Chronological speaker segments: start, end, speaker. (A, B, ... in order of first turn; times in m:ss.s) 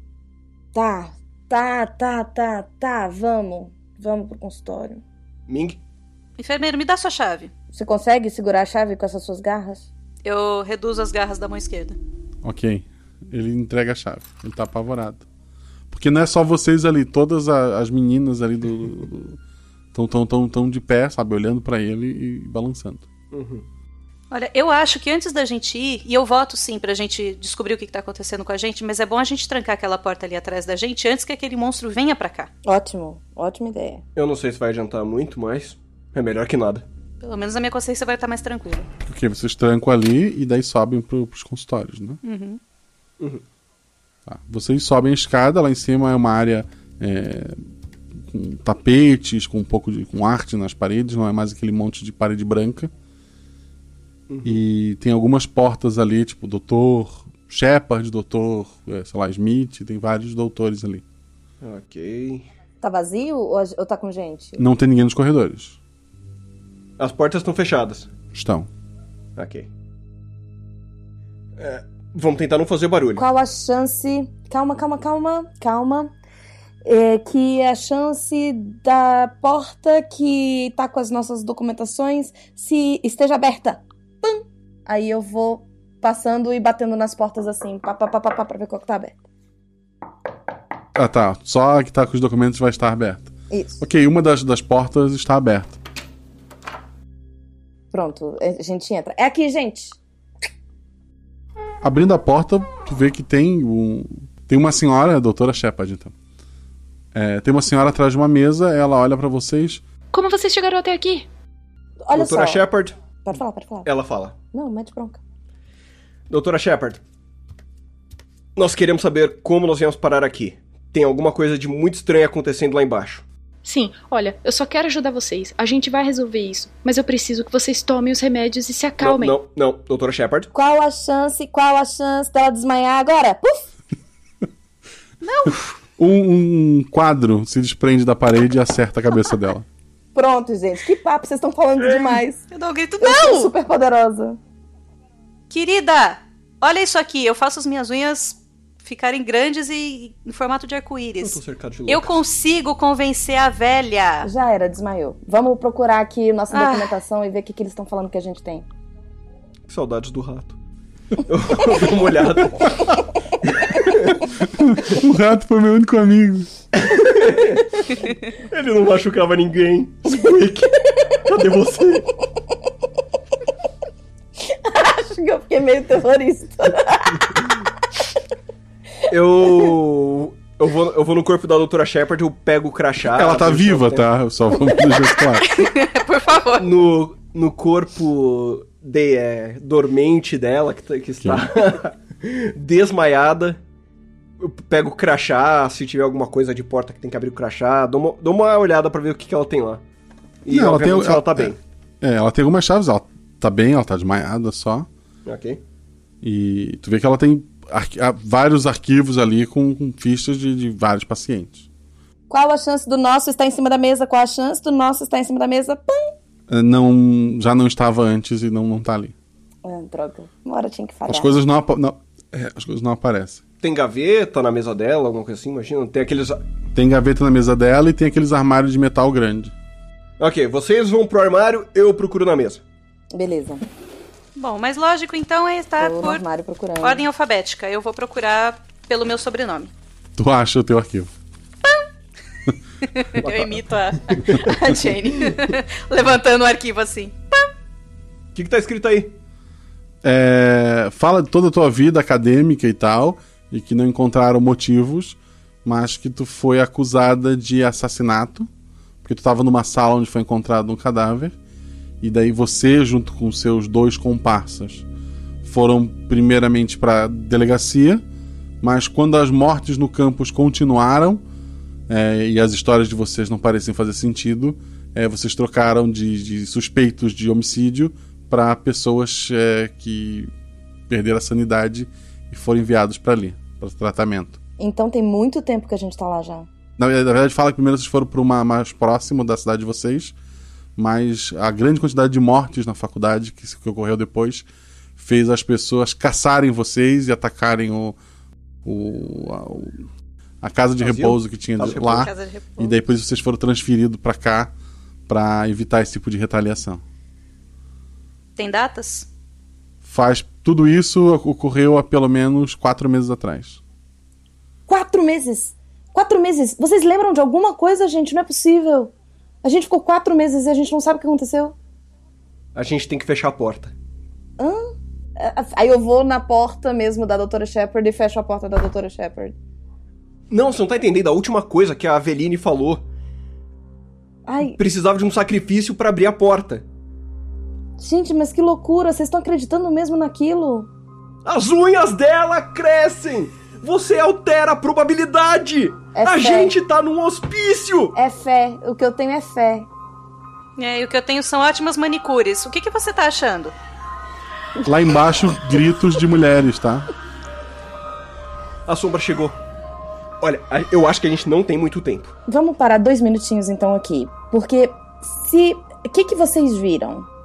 0:00.8-0:05.0 A
0:05.5-0:05.8 B
0:06.4-0:07.5 C
0:07.7-0:09.8 A
0:10.2-0:12.0 C
0:12.4-0:15.2 D
0:15.9-0:19.4 D
0:19.9-0:23.1 D
0:23.3-0:23.6 B
0:24.3-0:32.5 C
0:32.6-0:34.0 A
0:34.2-0:36.8 B
0:37.2-0:38.9 C
0:39.1-0:42.2 D
0:42.2-0:42.6 C
0:44.3-0:47.6 D
0:48.3-0:52.9 D
0:54.3-0:54.6 B
0:54.4-1:01.0 D
1:01.6-1:02.5 B
1:02.8-1:04.6 A
1:04.6-1:05.8 D
1:07.0-1:08.1 B
1:08.3-1:08.7 D
1:09.4-1:09.7 B
1:11.6-1:13.2 B
1:13.2-1:16.1 A
1:16.8-1:29.1 A
1:31.0-1:35.8 D
1:37.9-1:40.0 A
1:41.8-1:46.1 D
1:47.1-1:49.8 D
1:50.1-1:51.3 E
1:52.1-1:52.6 A
1:52.1-1:53.0 B
1:53.3-1:53.8 A
1:53.8-1:54.4 B
1:54.5-1:55.2 A
1:56.3-1:57.0 B
1:58.6-2:03.2 B
2:03.6-2:09.4 E
2:09.0-2:10.5 B
2:10.5-2:13.6 A
2:15.2-2:15.7 C
2:16.0-2:19.6 D
2:20.2-2:22.4 A
2:21.8-2:22.2 B
2:22.5-2:23.5 C
2:23.0-2:24.4 A
2:25.5-2:34.3 C
2:31.2-2:32.2 B
2:34.3-2:38.6 A
2:36.5-2:37.0 C
2:39.7-2:40.6 B
2:41.3-2:42.6 B
2:43.7-2:44.1 B
2:44.6-2:46.5 D
2:46.8-2:47.6 B
2:48.5-2:50.7 B
2:51.3-2:52.1 B
2:54.7-2:57.0 A
2:59.1-3:04.1 B
3:03.0-3:05.5 D
3:05.4-3:06.7 C
3:06.6-3:13.6 B
3:11.2-3:11.5 D
3:14.4-3:19.8 B
3:20.5-3:21.6 B
3:20.5-3:24.9 D
3:25.2-3:25.6 B
3:26.2-3:31.7 D
3:32.3-3:36.1 A
3:36.5-3:39.1 D
3:39.6-3:41.3 A
3:41.1-3:43.4 D
3:43.6-3:46.4 B
3:46.7-3:49.5 D
3:50.2-3:52.6 B
3:53.2-3:53.6 A
3:54.4-3:56.2 C
3:55.8-3:57.0 A
3:56.8-3:59.7 C
4:00.2-4:01.1 D
4:02.9-4:07.2 C
4:03.2-4:04.5 B
4:08.4-4:09.1 B
4:10.0-4:18.5 D
4:19.0-4:21.4 D
4:22.0-4:24.8 D
4:25.4-4:28.0 D
4:28.6-4:31.2 D
4:31.9-4:40.3 D
4:40.9-4:44.4 D
4:44.6-4:46.5 A
4:46.8-4:50.2 D
4:50.8-4:54.5 D
4:55.0-4:58.0 D
4:58.6-4:59.8 D
5:00.4-5:04.5 D
5:00.8-5:02.1 B
5:01.8-5:02.8 C
5:05.1-5:06.8 D
5:08.4-5:09.1 C
5:09.8-5:13.6 D
5:14.7-5:18.9 A
5:19.4-5:21.5 A
5:22.6-5:23.7 B
5:24.4-5:29.4 A
5:30.3-5:32.8 B
5:34.3-5:34.6 A
5:34.4-5:36.6 B
5:37.8-5:40.7 A
5:41.2-5:48.0 B
5:46.0-5:46.5 A
5:48.0-5:49.7 A
5:50.6-5:53.6 C
5:54.6-5:56.9 D
5:58.7-5:59.4 B
6:00.2-6:02.2 B
6:02.3-6:07.1 A